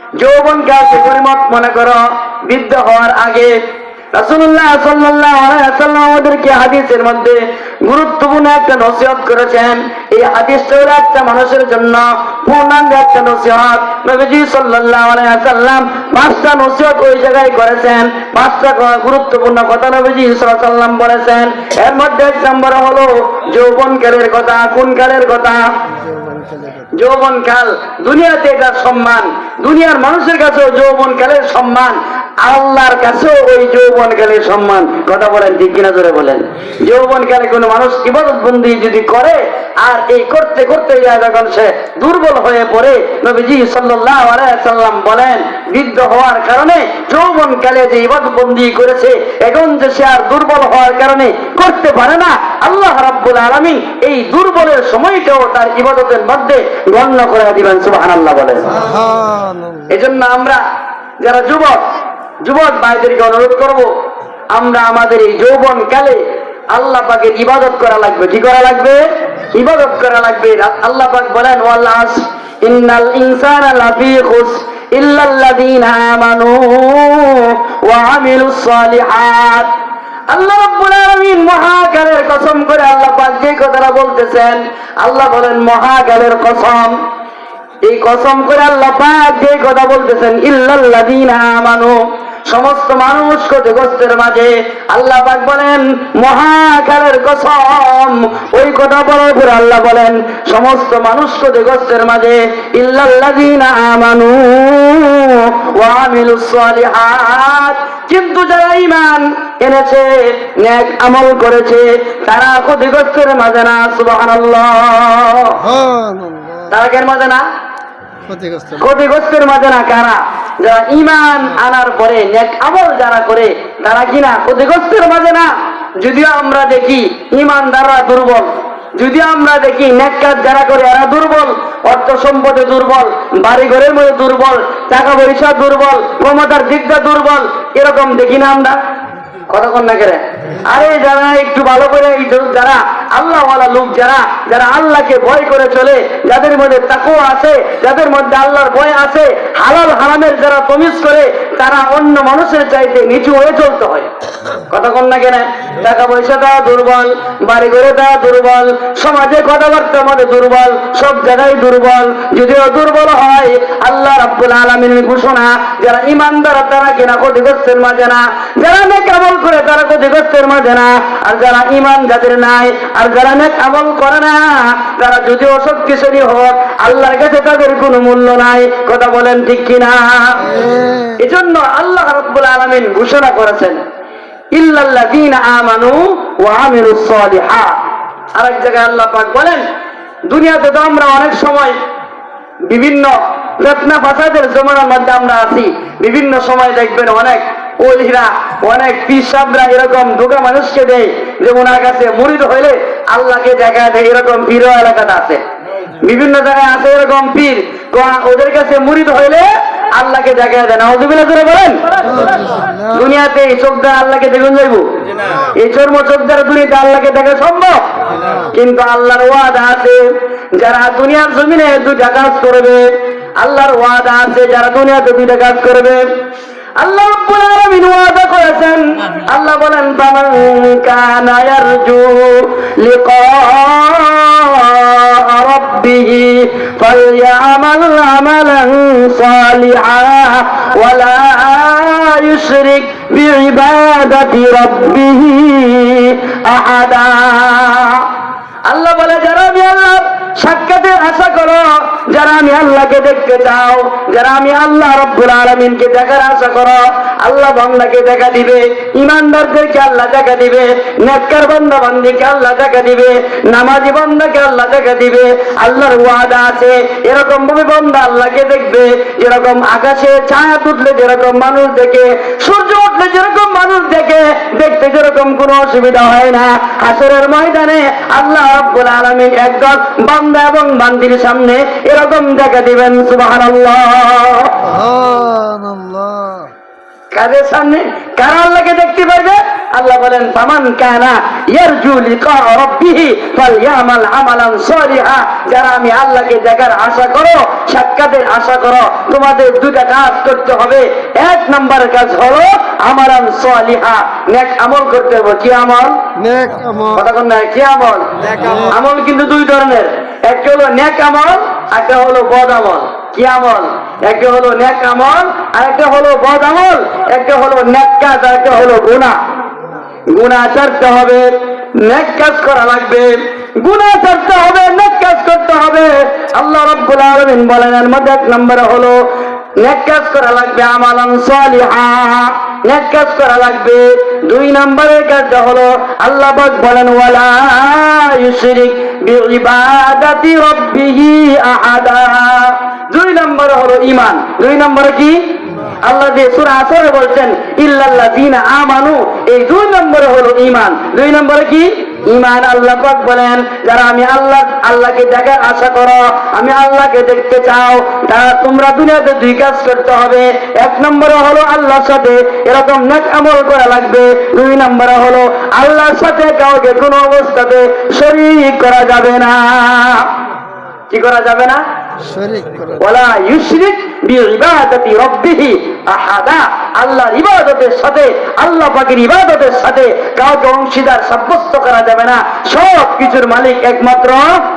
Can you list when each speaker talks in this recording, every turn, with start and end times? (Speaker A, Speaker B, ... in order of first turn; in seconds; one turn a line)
Speaker A: 0.2-3.5
Speaker A: 4.1-25.6
Speaker B: 26.0-26.9
Speaker A: 26.9-58.7
Speaker B: 58.7-59.9
Speaker A: 59.9-60.6
Speaker A: 61.2-61.8
Speaker A: 62.4-63.9
Speaker A: 64.5-66.2
Speaker A: 66.7-69.0
Speaker A: 69.5-79.7
Speaker A: 80.3-87.0
Speaker A: 87.8-115.6
Speaker B: 115.6-116.7
Speaker A: 116.7-117.4
Speaker B: 118.3-118.8
Speaker A: 118.8-138.8
Speaker A: 139.5-154.1
Speaker A: 154.7-180.5
Speaker B: 180.5-181.1
Speaker A: 181.2-183.8
Speaker A: 184.5-187.8
Speaker A: 188.3-189.6
Speaker A: 190.3-191.8
Speaker A: 192.7-205.4
Speaker A: 206.0-211.8
Speaker B: 212.1-212.9
Speaker A: 212.9-214.9
Speaker A: 215.5-217.8
Speaker A: 218.4-220.0
Speaker A: 220.6-222.8
Speaker A: 223.4-226.0
Speaker A: 226.8-248.1
Speaker A: 248.7-284.5
Speaker B: 284.6-286.5
Speaker A: 287.1-306.0
Speaker B: 306.2-307.1
Speaker A: 306.9-319.2
Speaker B: 308.3-308.7
Speaker A: 320.1-329.0
Speaker A: 329.6-345.2
Speaker A: 345.8-370.1
Speaker A: 370.9-371.6
Speaker B: 372.0-372.8
Speaker A: 372.8-384.3